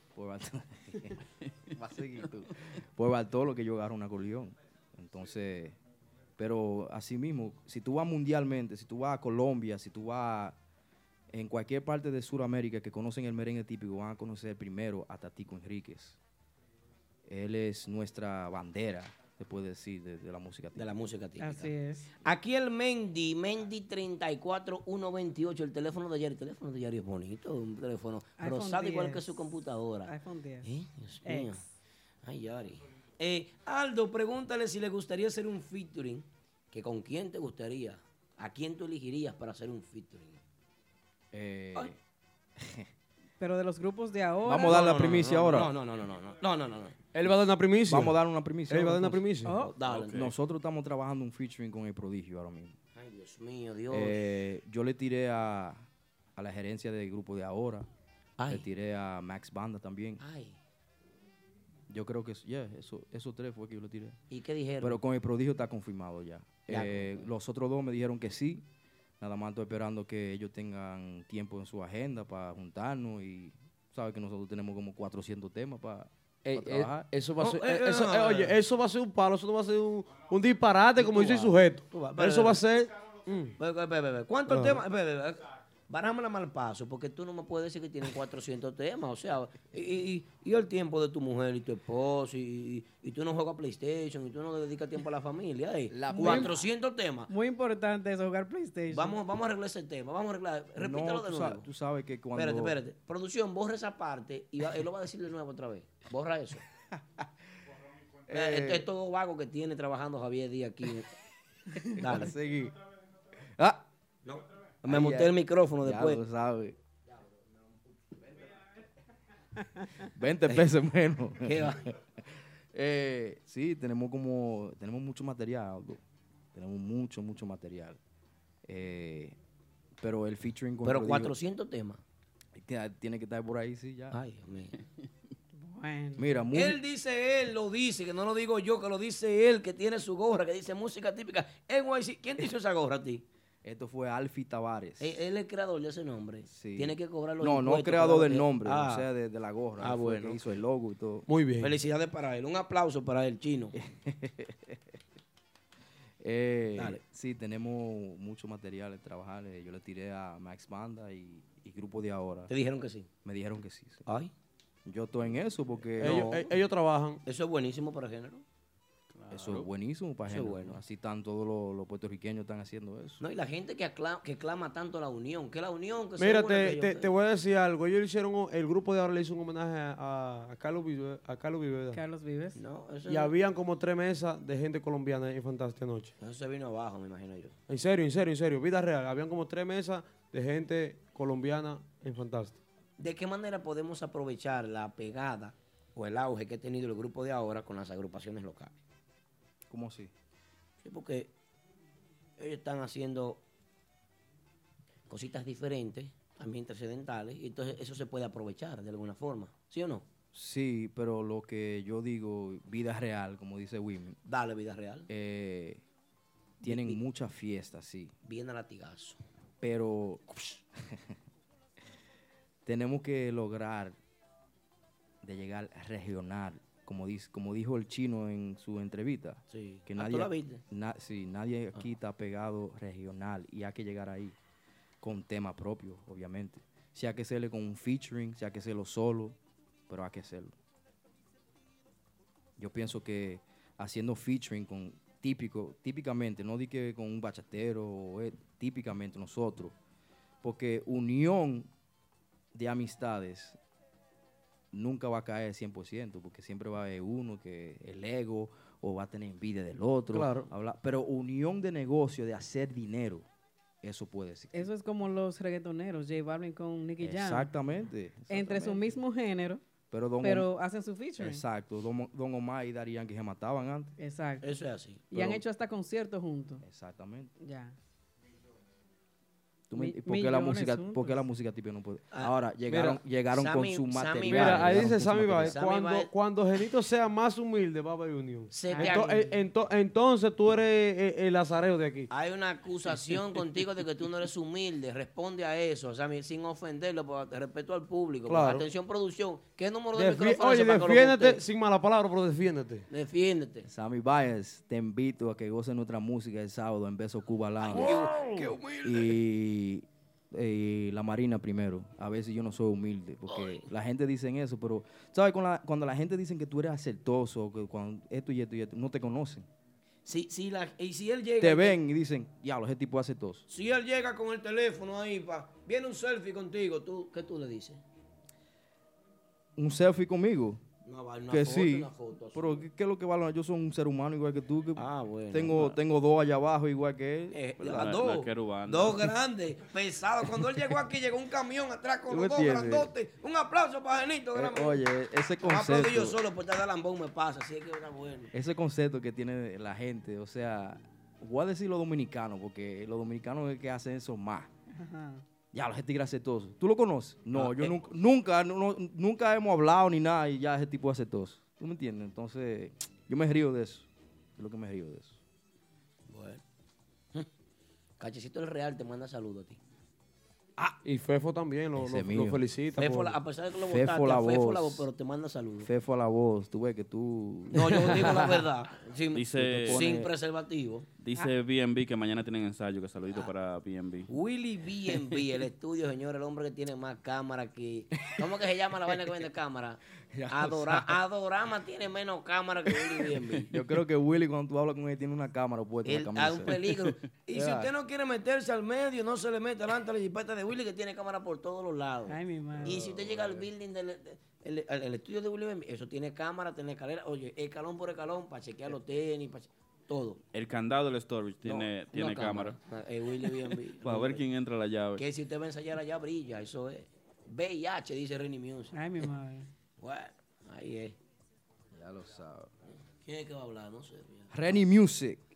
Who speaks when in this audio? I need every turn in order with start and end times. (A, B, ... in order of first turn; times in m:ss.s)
0:00.1-0:05.8 A
0:06.4-0:10.6 A
0:11.3-0:16.2 A
0:17.2-0:21.0 A
0:20.8-0:31.6 B
0:21.4-0:22.1 C
0:28.4-0:29.4 C
0:30.0-0:30.7 C
0:31.2-0:31.7 C
0:32.2-0:40.4 B
0:41.3-0:42.0 A
0:42.6-0:42.9 A
0:43.4-0:45.2 C
0:44.4-0:45.7 A
0:44.6-0:47.0 B
0:47.1-0:49.5 D
0:47.8-0:49.3 A
0:49.4-0:49.7 C
0:49.6-0:50.3 B
0:49.9-0:50.3 E
0:50.0-0:52.8 A
0:52.9-0:54.2 B
0:53.9-0:57.9 A
0:58.4-0:58.7 B
0:58.5-1:00.2 A
1:00.2-1:00.6 B
1:01.9-1:04.2 A
1:04.3-1:05.0 B
1:04.8-1:08.6 A
1:06.7-1:07.3 B
1:09.2-1:17.1 A
1:16.4-1:23.6 D
1:17.4-1:18.6 B
1:21.0-1:22.6 B
1:23.6-1:37.3 B
1:24.5-1:24.8 D
1:35.9-1:36.6 A
1:36.1-1:36.6 C
1:37.3-1:39.2 C
1:38.9-1:41.7 B
1:40.8-1:42.8 A
1:42.3-1:46.6 B
1:46.9-1:47.3 A
1:48.3-1:48.9 A
1:48.3-1:51.1 B
1:52.0-1:52.3 B
1:52.0-1:52.8 A
1:53.6-1:53.8 A
1:54.2-1:56.2 B
1:54.8-1:56.8 A
2:00.0-2:06.0 A
2:01.4-2:01.9 B
2:06.5-2:08.0 A
2:08.6-2:09.4 A
2:10.0-2:11.3 A
2:10.8-2:12.0 B
2:12.5-2:14.2 A
2:14.1-2:14.8 B
2:15.5-2:16.4 C
2:16.2-2:16.8 A
2:16.5-2:23.2 B
2:23.6-2:25.2 A
2:25.0-2:29.1 B
2:26.4-2:31.3 A
2:29.8-2:30.6 B
2:31.3-2:31.7 D
2:31.6-2:33.8 B
2:33.7-2:35.0 A
2:36.2-2:42.5 A
2:36.8-2:37.0 B
2:42.5-2:43.1 B
2:43.2-2:44.0 A
2:44.0-2:44.3 B
2:44.8-2:46.4 A
2:46.0-2:46.5 B
2:46.0-2:47.2 D
2:47.2-2:48.4 B
2:49.1-2:49.7 E
2:49.3-2:53.2 A
2:50.3-2:50.8 B
2:53.2-2:57.1 B
2:56.2-3:02.0 D
3:01.9-3:02.6 C
3:02.6-3:03.3 B
3:03.1-3:06.1 D
3:06.2-3:07.6 B
3:07.7-3:12.6 D
3:13.0-3:18.7 B
3:19.7-3:20.1 A
3:20.8-3:21.3 B
3:22.4-3:23.4 B
3:25.1-3:30.0 B
3:30.3-3:34.2 A
3:34.2-3:35.1 B
3:35.1-3:35.8 A
3:36.6-3:37.0 B
3:36.6-3:38.1 A
3:38.2-3:39.2 B
3:39.6-3:40.2 A
3:40.8-3:41.1 A
3:42.6-3:44.0 A
3:45.2-3:54.4 A
3:49.5-3:50.6 B
3:55.0-3:59.4 A
3:59.9-4:00.5 A
4:02.6-4:09.7 A
4:10.4-4:11.7 A
4:12.5-4:13.6 A
4:14.7-4:23.2 A
4:20.1-4:20.5 D
4:23.8-4:24.7 A
4:24.5-4:27.5 C
4:27.0-4:29.0 A
4:28.3-4:29.6 C
4:29.9-4:30.5 A
4:30.2-4:31.4 C
4:31.2-4:34.0 A
4:34.0-4:34.5 C
4:34.4-4:35.0 B
4:35.1-4:36.6 C
4:35.1-4:35.4 A
4:36.6-4:37.3 A
4:37.4-4:37.7 C
4:39.7-4:45.6 A
4:39.7-4:41.2 C
4:42.7-4:43.0 D
4:43.3-4:46.1 B
4:44.3-4:52.1 D
4:48.5-4:49.1 B
4:48.7-4:49.3 C
4:52.1-5:01.4 B
4:58.3-4:58.7 D
4:59.9-5:02.9 D
5:02.9-5:03.7 B
5:03.6-5:19.5 A
5:07.6-5:09.2 B
5:07.7-5:08.6 D
5:13.3-5:13.7 B
5:20.0-5:21.8 B
5:21.4-5:23.4 A
5:23.5-5:27.8 B
5:29.6-5:30.6 A
5:30.8-5:32.7 B
5:31.3-5:37.8 A
5:34.8-5:35.6 B
5:37.3-5:44.8 B
5:37.6-5:39.1 E
5:42.1-5:42.9 A
5:44.3-5:46.2 A
5:45.4-5:48.3 B
5:48.3-5:54.5 A
5:54.7-5:55.2 C
5:55.5-6:05.2 A
5:57.3-5:57.8 B
6:06.1-6:06.4 B
6:08.0-6:09.6 B
6:10.8-6:13.2 D
6:11.8-6:12.5 A
6:12.8-6:15.7 B
6:13.6-6:14.9 A
6:15.6-6:18.4 A
6:17.5-6:20.9 B
6:19.1-6:19.8 E
6:19.4-6:20.1 A
6:21.0-6:24.1 E
6:24.1-6:33.5 B
6:24.9-6:25.2 A
6:27.9-6:28.3 A
6:28.9-6:29.2 A
6:30.1-6:31.0 A
6:32.7-6:37.7 A
6:35.8-6:50.2 B
6:42.1-6:42.8 C
6:42.5-6:43.5 A
6:50.3-6:52.6 E
6:51.4-6:54.2 B
6:53.8-6:55.0 E
6:55.0-6:58.8 B
6:58.7-6:59.5 C
6:59.8-7:01.0 B
7:01.7-7:02.5 A
7:03.0-7:04.3 B
7:04.3-7:05.2 A